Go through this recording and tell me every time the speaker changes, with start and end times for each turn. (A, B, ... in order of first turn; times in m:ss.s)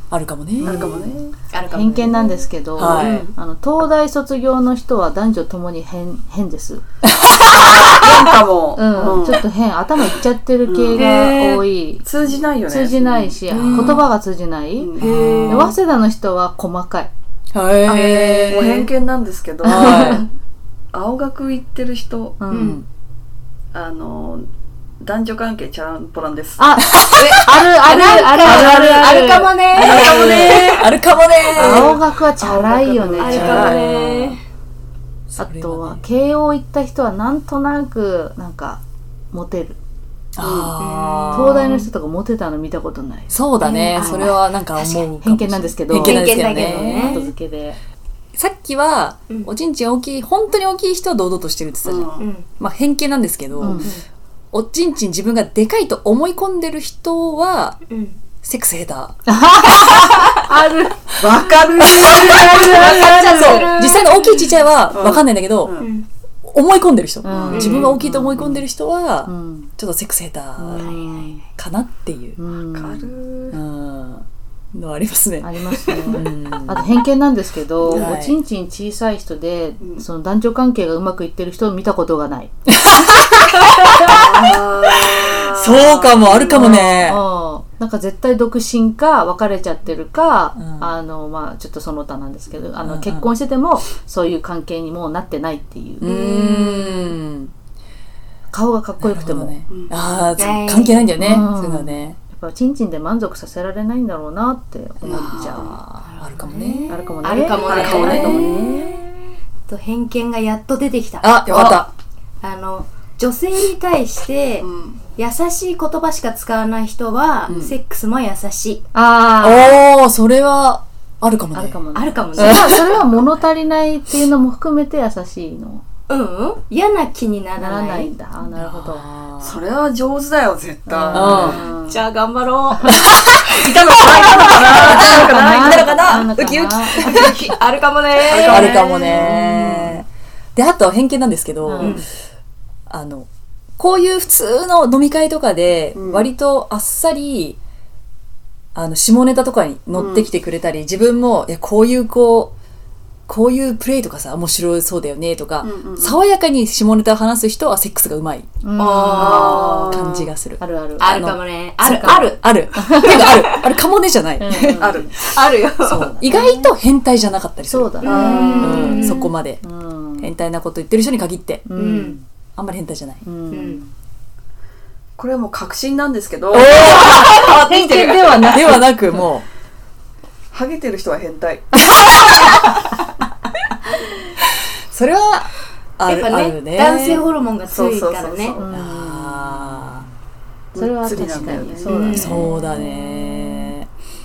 0:00.1-0:00.9 A
0:00.6-0:01.3 B
0:00.6-0:03.3 C
0:01.7-0:06.8 D
0:02.8-0:03.3 A
0:07.4-0:09.4 B
0:08.8-0:12.1 D
0:10.7-0:11.3 B
0:11.0-0:11.6 C
0:12.0-0:13.4 B
0:12.7-0:17.1 D
0:13.5-0:14.0 A
0:13.5-0:14.0 C
0:14.8-0:15.1 B
0:15.0-0:15.8 A
0:15.0-0:15.7 C
0:17.5-0:18.9 A
0:17.9-0:20.2 B
0:19.6-0:20.3 D
0:19.6-0:20.3 A
0:20.9-0:22.4 B
0:22.4-0:22.8 D
0:22.5-0:22.8 C
0:23.7-0:24.5 B
0:25.0-0:26.7 B
0:26.6-0:30.6 D
0:27.0-0:27.4 A
0:27.2-0:31.0 C
0:29.8-0:31.9 A
0:31.5-0:32.0 C
0:31.6-0:34.3 D
0:32.4-0:33.9 B
0:33.2-0:34.4 C
0:33.5-0:33.7 A
0:35.4-0:39.8 D
0:35.4-0:36.0 A
0:40.4-0:41.7 A
0:40.4-0:40.7 B
0:40.8-0:41.9 C
0:41.3-0:44.3 D
0:43.3-0:47.3 A
0:43.6-0:44.4 C
0:45.2-0:47.8 D
0:45.9-0:47.2 C
0:48.4-0:53.9 A
0:51.8-0:52.3 B
0:52.2-0:52.5 C
0:53.6-0:53.9 D
0:54.5-0:57.8 A
0:57.9-0:58.2 C
0:58.4-0:59.2 A
0:59.3-1:03.1 D
1:01.8-1:05.7 A
1:02.5-1:04.5 C
1:04.9-1:05.9 B
1:05.8-1:06.1 C
1:06.4-1:10.9 A
1:07.2-1:08.7 D
1:07.3-1:07.9 B
1:07.5-1:08.0 C
1:09.2-1:09.7 D
1:10.6-1:11.4 D
1:10.8-1:11.4 C
1:11.6-1:12.4 A
1:12.4-1:13.1 D
1:12.7-1:13.6 B
1:13.5-1:17.0 A
1:15.4-1:22.5 D
1:17.8-1:18.4 A
1:19.8-1:20.0 B
1:22.8-1:24.2 A
1:24.0-1:26.9 B
1:25.0-1:27.2 A
1:26.5-1:36.1 D
1:30.6-1:30.9 A
1:32.8-1:33.3 A
1:36.0-1:37.5 A
1:36.0-1:37.0 C
1:38.5-1:39.6 D
1:39.0-1:42.2 A
1:40.4-1:41.1 C
1:41.2-1:45.8 D
1:45.0-1:46.9 A
1:45.0-1:45.7 B
1:46.0-1:48.8 C
1:46.9-1:48.5 D
1:47.6-1:48.6 B
1:47.9-1:49.0 A
1:49.7-1:51.3 C
1:51.2-1:51.9 A
1:51.5-1:51.9 B
1:52.4-1:58.8 C
1:54.6-1:55.0 B
1:57.5-1:57.8 B
1:58.9-1:59.8 D
1:59.4-2:01.8 A
2:01.5-2:05.8 D
2:01.9-2:02.9 C
2:02.4-2:03.1 A
2:06.1-2:08.1 C
2:07.6-2:09.1 D
2:08.6-2:09.6 A
2:09.4-2:11.6 B
2:10.9-2:12.0 D
2:11.1-2:11.6 A
2:11.2-2:15.3 C
2:13.2-2:17.5 A
2:14.2-2:16.3 B
2:14.6-2:17.4 D
2:17.0-2:18.9 C
2:18.2-2:19.4 B
2:18.4-2:22.0 A
2:18.9-2:20.0 D
2:21.6-2:22.0 D
2:21.8-2:22.1 C
2:22.9-2:27.6 A
2:25.9-2:26.3 B
2:28.8-2:32.5 A
2:30.0-2:30.3 B
2:33.3-2:38.5 A
2:35.6-2:36.2 B
2:38.6-2:40.0 D
2:38.8-2:39.7 C
2:39.2-2:40.3 B
2:39.4-2:40.6 A
2:40.6-2:43.3 D
2:41.0-2:43.7 C
2:41.8-2:44.8 A
2:44.4-2:45.1 D
2:44.8-2:45.2 B
2:45.2-2:46.1 C
2:45.8-2:49.6 A
2:46.2-2:46.7 D
2:47.7-2:50.3 D
2:48.0-2:49.3 C
2:48.0-2:48.8 B
2:50.2-2:51.6 A
2:51.7-2:52.3 D
2:51.8-2:52.2 C
2:52.6-2:53.2 A
2:53.2-2:53.9 D
2:53.5-2:53.8 C
2:55.2-2:56.8 B
2:56.5-2:57.3 A
2:56.8-2:58.6 C
2:57.0-2:59.3 D
2:58.5-2:59.5 A
3:00.5-3:01.8 B
3:04.9-3:07.3 A
3:06.1-3:08.6 C
3:07.7-3:08.7 B
3:08.6-3:10.0 D
3:08.7-3:10.1 A
3:10.7-3:12.2 B
3:10.8-3:13.7 D
3:11.8-3:12.5 C
3:12.1-3:13.9 A